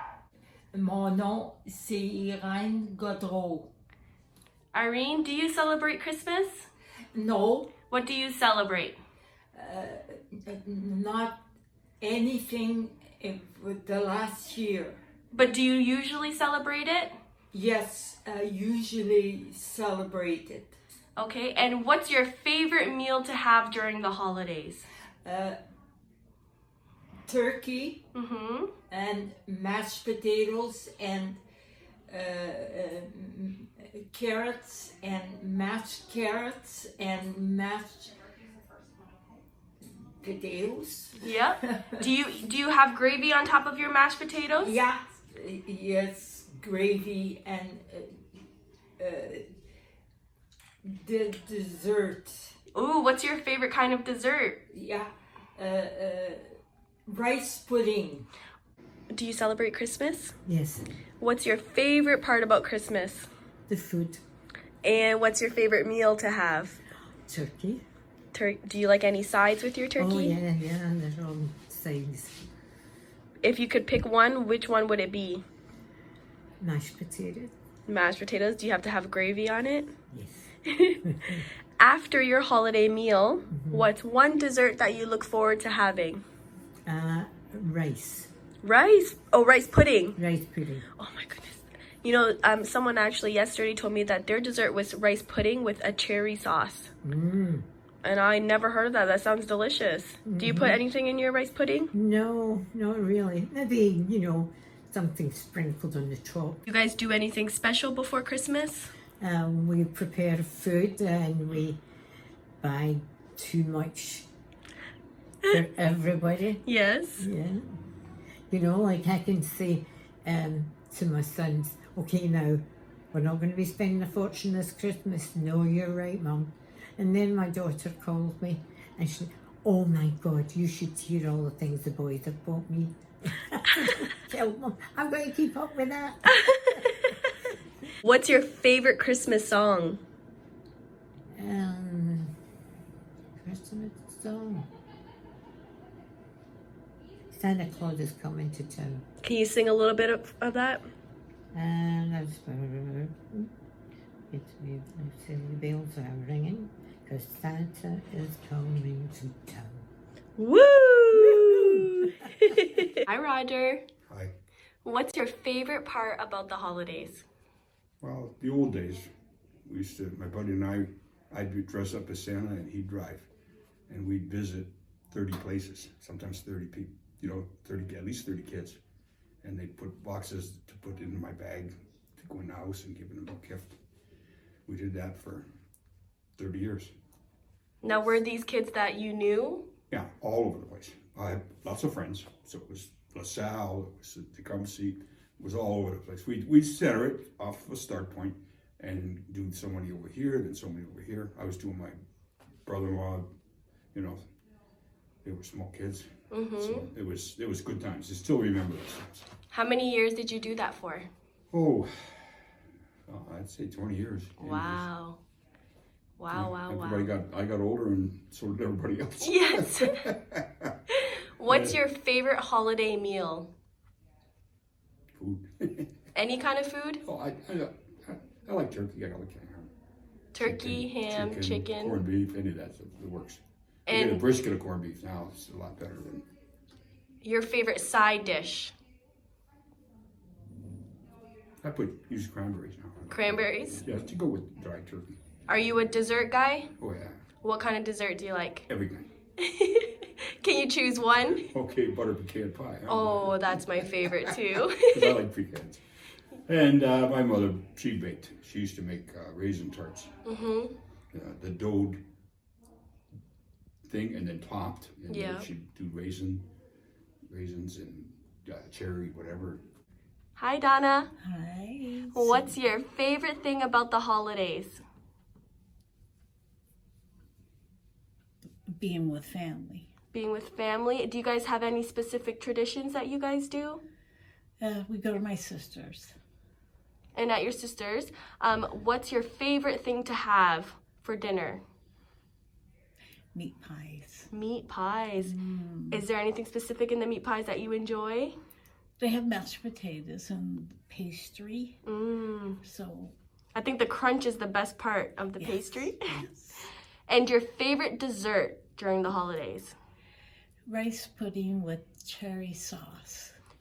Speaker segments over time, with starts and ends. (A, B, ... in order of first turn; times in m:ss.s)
0:00.7-0:03.7 A
0:04.7-0:06.7 B
0:07.1-0:07.8 A
0:07.9-0:09.0 B
0:09.5-0:11.5 A
0:12.0-0:15.0 A
0:15.3-0:17.2 B
0:17.5-0:20.8 A
0:21.2-0:24.9 B
0:25.2-0:25.6 A
0:27.2-0:28.0 A
0:28.1-0:28.7 B
0:28.9-0:31.4 A
0:32.1-0:38.2 A
0:40.2-0:42.1 A
0:41.2-0:44.8 B
0:44.6-0:48.2 A
0:49.0-0:49.6 A
0:50.8-0:52.6 A
0:52.7-0:54.6 B
0:54.7-0:58.3 A
0:59.1-1:00.3 B
1:00.4-1:00.9 C
1:01.2-1:03.3 B
1:03.7-1:04.2 C
1:04.8-1:06.8 B
1:07.3-1:07.8 C
1:08.3-1:10.4 B
1:10.0-1:12.4 C
1:13.4-1:15.4 B
1:16.6-1:17.5 C
1:17.9-1:19.9 B
1:20.1-1:20.5 C
1:20.7-1:21.0 B
1:21.0-1:21.4 C
1:21.8-1:26.2 B
1:23.5-1:23.9 C
1:26.9-1:28.3 C
1:28.6-1:30.2 B
1:30.2-1:30.9 C
1:31.0-1:36.9 B
1:37.0-1:37.6 C
1:38.0-1:41.9 B
1:40.2-1:40.8 C
1:41.9-1:46.6 C
1:46.7-1:48.9 B
1:49.2-1:51.8 C
1:52.6-1:54.3 C
1:55.5-1:56.6 C
1:56.7-1:57.3 B
1:57.2-1:57.7 C
1:58.5-2:16.8 C
2:16.3-2:17.1 B
2:18.0-2:20.0 B
2:21.3-2:22.3 C
2:23.4-2:24.7 C
2:27.3-2:29.0 C
2:29.2-2:30.9 B
2:31.5-2:33.5 C
2:34.3-2:39.9 C
2:40.4-2:43.8 B
2:41.1-2:42.6 C
2:44.8-2:47.2 B
2:48.0-2:49.1 D
2:49.6-2:53.3 D
2:53.9-2:58.8 D
2:59.4-3:03.7 D
3:04.7-3:05.5 D
3:06.4-3:06.9 D
3:07.8-3:09.7 B
3:09.9-3:22.0 D
3:22.7-3:23.3 D
3:23.9-3:24.2 D
3:25.2-3:29.3 D
3:26.3-3:26.9 B
3:29.5-3:31.1 B
3:31.5-3:32.3 D
3:33.1-3:34.8 D
3:34.4-3:35.2 B
3:36.2-3:37.1 B
3:36.3-3:40.8 D
3:39.2-3:40.0 B
3:41.4-3:43.5 B
3:41.5-3:41.8 D
3:45.2-3:45.9 D
3:46.2-3:47.0 B
3:47.0-3:49.7 D
3:50.3-3:52.0 B
3:50.4-3:56.2 D
3:53.9-3:54.2 B
3:57.2-3:58.7 B
4:01.6-4:05.2 D
4:03.1-4:03.8 B
4:05.5-4:06.7 B
4:06.8-4:07.2 D
4:07.4-4:08.7 B
4:08.7-4:09.1 D
4:09.4-4:11.5 B
4:11.4-4:15.8 D
4:12.9-4:15.2 B
4:16.5-4:20.1 D
4:20.3-4:20.8 B
4:21.1-4:22.0 D
4:23.8-4:26.5 D
4:25.1-4:25.5 B
4:27.3-4:29.6 D
4:30.4-4:31.1 B
4:31.2-4:32.6 E
4:32.1-4:34.8 B
4:38.7-4:39.9 E
4:40.1-4:43.8 B
4:44.6-4:46.2 E
4:47.2-4:51.6 B
4:53.3-4:54.3 E
4:54.3-4:55.4 B
4:55.2-4:56.0 E
4:55.9-4:58.4 B
4:59.0-5:01.8 E
5:01.9-5:02.6 B
5:02.6-5:03.1 E
5:03.6-5:06.2 B
5:05.4-5:06.4 E
5:07.1-5:09.8 B
5:10.7-5:13.4 E